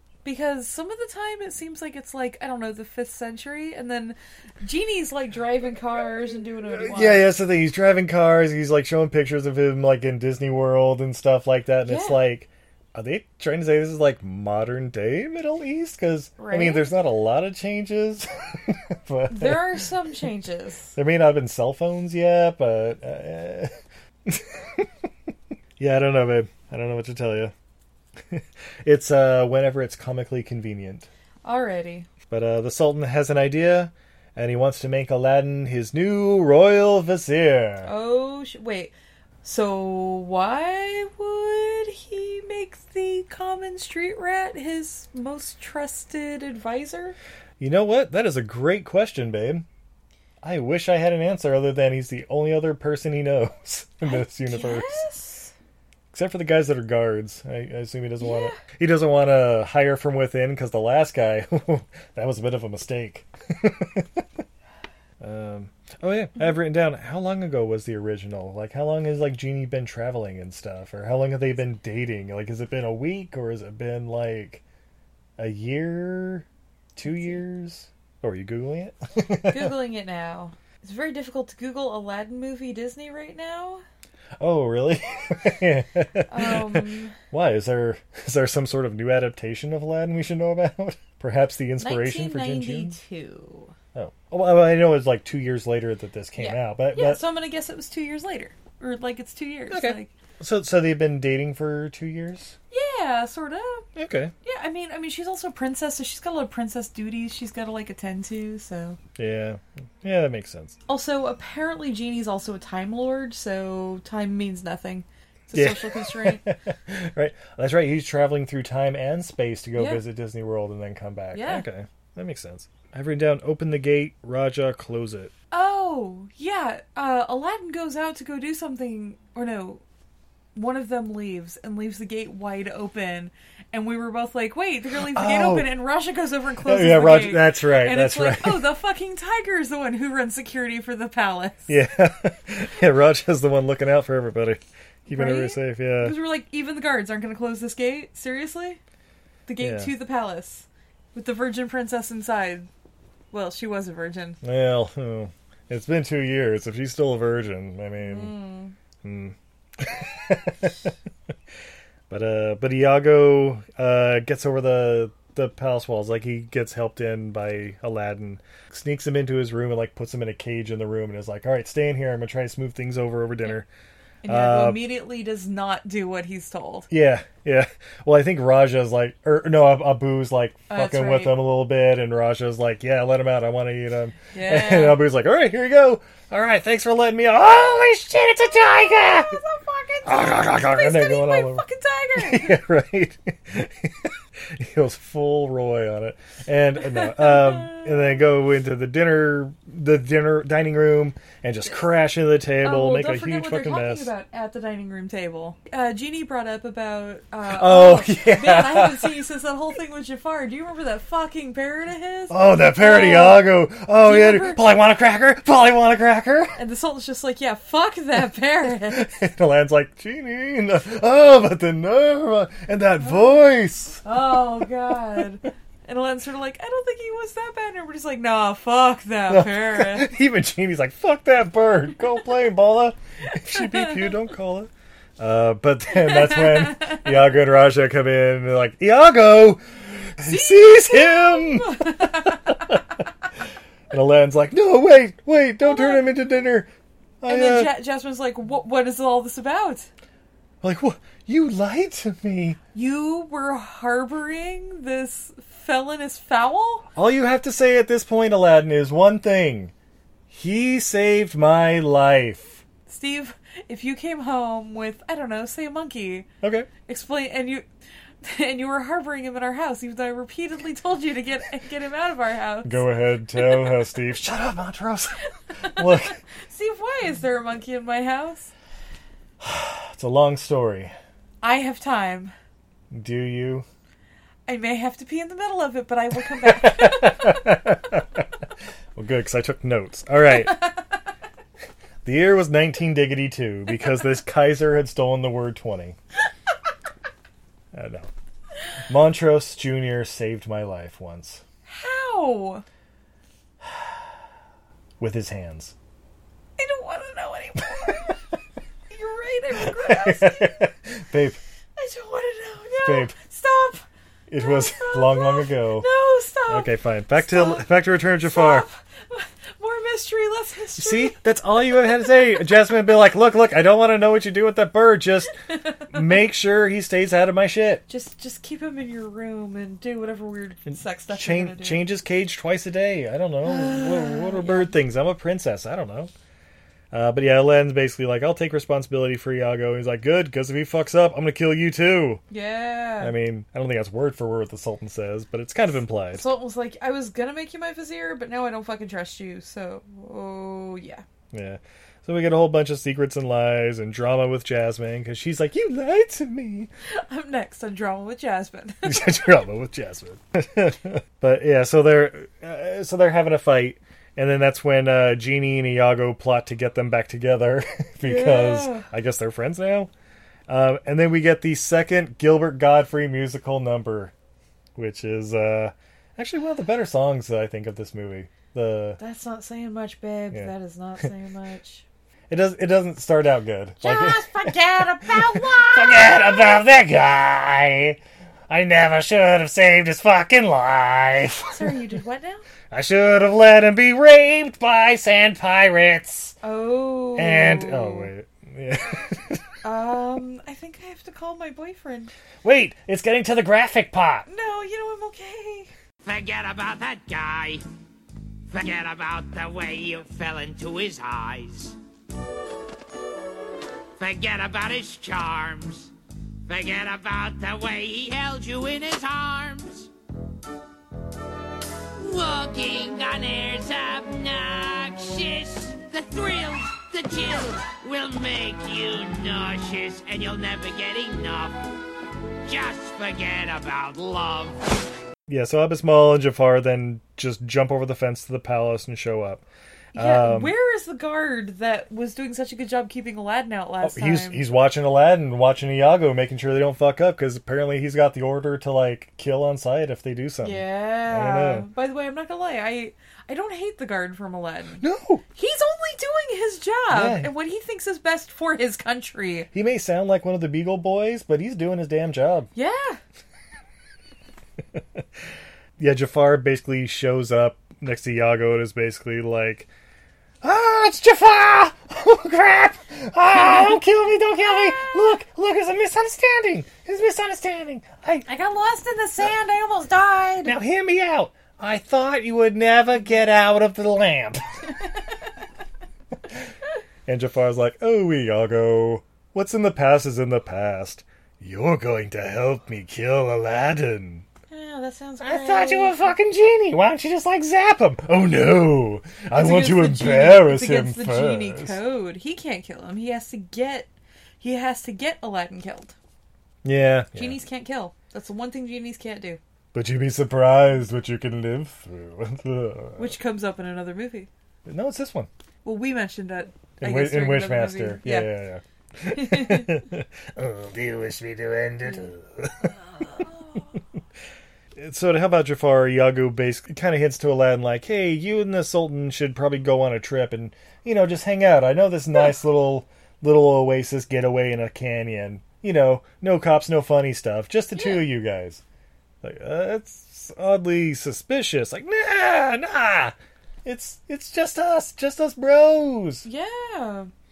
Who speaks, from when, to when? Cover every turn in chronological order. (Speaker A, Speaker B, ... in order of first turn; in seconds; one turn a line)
Speaker A: 0.2-7.3
Speaker B: 6.8-19.8
Speaker A: 11.8-12.2
Speaker A: 16.4-16.9
Speaker A: 19.3-20.9
Speaker B: 20.9-23.7
Speaker B: 24.2-24.9
Speaker B: 25.8-27.5
Speaker B: 28.3-31.1
Speaker A: 31.4-32.1
Speaker B: 32.3-37.9
Speaker A: 37.8-38.9
Speaker A: 39.4-47.1
Speaker B: 47.6-49.6
Speaker B: 50.4-55.0
Speaker A: 54.0-55.5
Speaker B: 56.1-64.2
Speaker A: 58.2-58.6
Speaker B: 65.2-74.6
Speaker B: 75.4-79.8
Speaker A: 77.0-77.4
Speaker A: 79.5-83.8
Speaker B: 84.4-93.0
Speaker A: 86.3-87.2
Speaker A: 91.8-93.7
Speaker B: 93.9-97.2
Speaker A: 96.4-100.1
Speaker B: 99.7-102.5
Speaker A: 102.7-103.9
Speaker B: 104.0-104.3
Speaker A: 104.4-109.0
Speaker B: 109.2-110.8
Speaker A: 110.9-116.5
Speaker B: 115.5-125.3
Speaker A: 119.8-120.0
Speaker A: 121.3-121.7
Speaker A: 125.5-129.8
Speaker A: 130.5-141.7
Speaker B: 135.0-135.8
Speaker B: 136.6-138.7
Speaker B: 141.7-146.2
Speaker A: 145.1-148.8
Speaker A: 149.4-152.7
Speaker B: 149.6-149.9
Speaker A: 153.3-154.4
Speaker B: 154.4-158.3
Speaker A: 158.0-158.7
Speaker B: 159.0-160.9
Speaker B: 162.1-173.7
Speaker A: 174.2-176.9
Speaker B: 174.2-174.9
Speaker B: 176.9-189.4
Speaker A: 180.7-181.4
Speaker A: 184.3-185.0
Speaker A: 188.7-192.6
Speaker B: 190.0-191.6
Speaker B: 192.2-204.1
Speaker A: 196.8-198.2
Speaker A: 202.6-213.5
Speaker B: 207.4-209.2
Speaker B: 212.3-216.6
Speaker A: 214.0-214.6
Speaker A: 216.5-219.1
Speaker B: 218.8-224.1
Speaker A: 223.0-223.4
Speaker A: 224.0-230.1
Speaker B: 229.3-239.6
Speaker A: 233.6-233.9
Speaker A: 235.9-237.1
Speaker B: 240.2-242.8
Speaker A: 240.2-242.6
Speaker B: 243.9-246.7
Speaker A: 245.6-246.1
Speaker B: 247.2-247.8
Speaker A: 247.2-249.9
Speaker B: 250.6-252.6
Speaker A: 252.7-256.9
Speaker B: 256.9-259.7
Speaker B: 260.3-262.6
Speaker A: 262.9-266.3
Speaker B: 266.4-266.7
Speaker A: 266.9-267.6
Speaker A: 268.2-272.9
Speaker B: 272.6-276.2
Speaker A: 273.4-273.8
Speaker A: 275.6-278.5
Speaker B: 279.4-280.9
Speaker A: 281.4-282.3
Speaker B: 282.9-283.6
Speaker A: 284.5-287.3
Speaker B: 286.4-288.2
Speaker B: 288.9-290.7
Speaker B: 292.0-296.0
Speaker B: 297.7-298.1
Speaker B: 298.9-301.4
Speaker A: 301.7-302.6
Speaker B: 305.0-305.7
Speaker A: 306.6-308.2
Speaker A: 308.9-310.6
Speaker B: 309.6-311.4
Speaker A: 311.8-313.9
Speaker B: 312.8-313.1
Speaker B: 314.3-315.9
Speaker A: 314.4-321.2
Speaker B: 316.5-318.6
Speaker B: 320.8-325.4
Speaker B: 325.9-327.8
Speaker A: 327.9-331.8
Speaker B: 330.7-336.1
Speaker A: 333.4-334.8
Speaker B: 336.9-342.2
Speaker A: 342.3-343.1
Speaker B: 343.0-346.2
Speaker A: 346.1-351.0
Speaker B: 351.3-356.7
Speaker A: 356.9-359.4
Speaker B: 358.8-369.9
Speaker A: 368.0-368.9
Speaker B: 370.5-374.1
Speaker B: 374.8-379.0
Speaker A: 379.0-381.8
Speaker B: 382.3-391.8
Speaker A: 383.8-386.5
Speaker A: 391.5-392.4
Speaker B: 392.7-396.4
Speaker A: 396.4-398.1
Speaker B: 397.1-399.4
Speaker A: 399.6-402.1
Speaker B: 402.4-404.3
Speaker A: 404.3-405.7
Speaker C: 406.0-407.6
Speaker C: 408.5-411.7
Speaker C: 414.0-415.9
Speaker C: 416.5-419.9
Speaker C: 422.0-431.6
Speaker C: 432.4-434.7
Speaker B: 435.3-440.5
Speaker A: 439.9-444.4
Speaker B: 443.8-451.7
Speaker A: 450.4-454.8
Speaker B: 454.8-455.2
Speaker A: 455.3-459.5
Speaker B: 456.9-457.3
Speaker B: 459.5-462.5
Speaker A: 462.5-463.0
Speaker B: 464.7-465.0
Speaker B: 465.8-469.7
Speaker B: 470.4-478.3
Speaker A: 473.4-473.8
Speaker A: 474.4-475.1
Speaker A: 478.2-480.5
Speaker B: 480.4-484.4
Speaker B: 487.1-494.3
Speaker A: 494.5-496.1
Speaker B: 495.2-501.8
Speaker A: 499.3-503.9
Speaker A: 504.4-505.9
Speaker B: 506.6-507.4
Speaker A: 507.1-509.4
Speaker B: 509.7-513.2
Speaker A: 513.0-514.3
Speaker B: 514.6-515.3
Speaker A: 515.6-518.3
Speaker B: 516.8-523.1
Speaker A: 519.1-519.8
Speaker A: 523.1-523.8
Speaker B: 524.8-538.6
Speaker A: 537.7-538.0
Speaker B: 539.2-546.3
Speaker A: 546.2-547.1